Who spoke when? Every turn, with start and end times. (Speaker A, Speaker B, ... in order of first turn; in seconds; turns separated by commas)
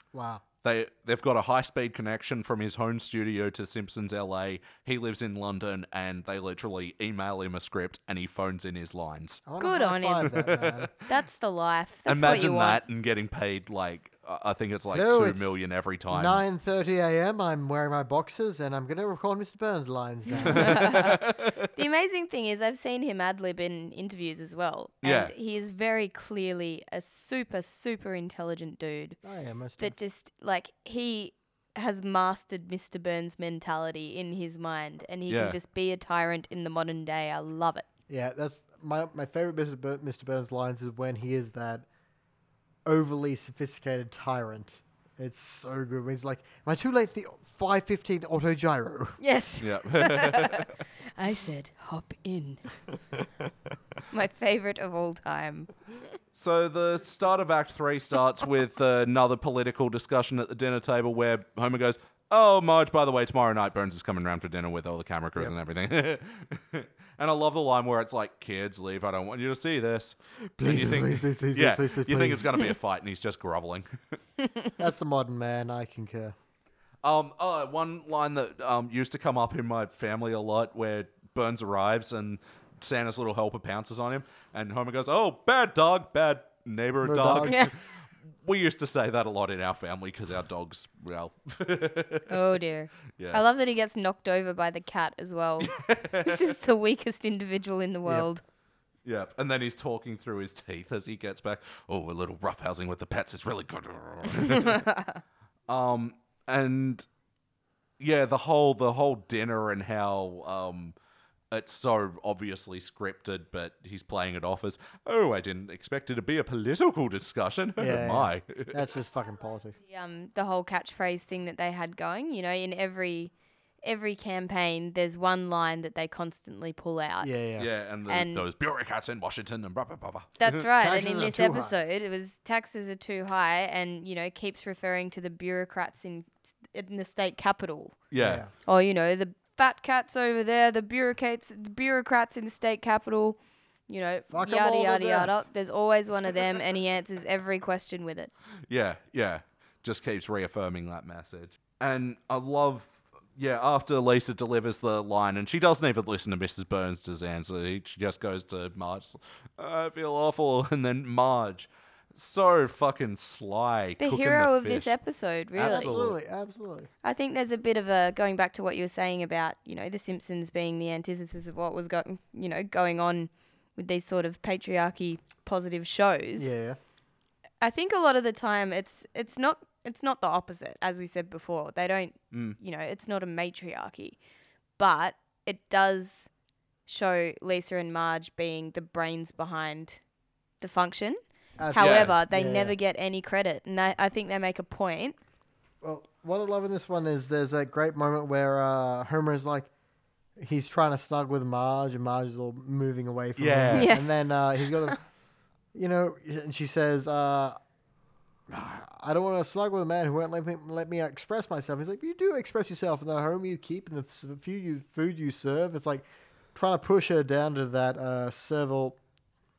Speaker A: 0.1-0.4, Speaker B: 0.6-9.4, Speaker A: 9.5-10.9, Speaker C: 9.6-10.4, Speaker B: 10.4-10.8, Speaker C: 11.1-12.8, Speaker B: 12.1-16.4, Speaker A: 14.9-15.6, Speaker A: 16.1-20.9, Speaker C: 20.4-29.2, Speaker B: 20.4-21.7, Speaker B: 25.0-25.3, Speaker A: 29.2-30.0, Speaker C: 29.8-37.9, Speaker B: 35.3-35.6, Speaker A: 38.1-41.9, Speaker A: 42.9-49.2, Speaker C: 49.2-52.6, Speaker B: 49.6-50.7, Speaker C: 54.1-55.8, Speaker B: 56.3-74.2, Speaker A: 70.6-72.7, Speaker A: 74.8-76.3, Speaker B: 77.0-87.7, Speaker A: 87.0-87.7, Speaker C: 87.5-87.7, Speaker B: 88.4-92.3, Speaker C: 92.3-98.4, Speaker B: 95.6-96.4, Speaker B: 99.0-104.9, Speaker C: 104.4-105.2, Speaker B: 105.7-107.1, Speaker B: 108.0-111.0, Speaker B: 111.5-118.8, Speaker A: 117.8-119.8, Speaker C: 119.9-127.3, Speaker A: 127.2-127.7, Speaker B: 127.6-130.6, Speaker C: 128.1-128.4, Speaker C: 130.4-138.0, Speaker A: 130.8-131.8, Speaker B: 138.1-138.4, Speaker A: 138.2-138.5, Speaker C: 138.7-143.4, Speaker C: 143.9-148.3, Speaker A: 144.3-145.4, Speaker B: 148.7-164.9, Speaker C: 164.0-165.9, Speaker B: 165.6-166.2, Speaker A: 165.6-166.9, Speaker C: 167.0-176.5, Speaker A: 176.4-176.8, Speaker C: 177.6-184.2, Speaker C: 184.8-186.3, Speaker C: 186.9-190.0, Speaker C: 190.6-191.2, Speaker A: 191.6-192.8, Speaker C: 191.7-195.2, Speaker B: 191.8-192.2, Speaker A: 195.8-199.7, Speaker A: 200.4-205.0, Speaker B: 203.4-204.0, Speaker C: 203.7-205.0, Speaker A: 205.7-207.6, Speaker A: 208.5-219.0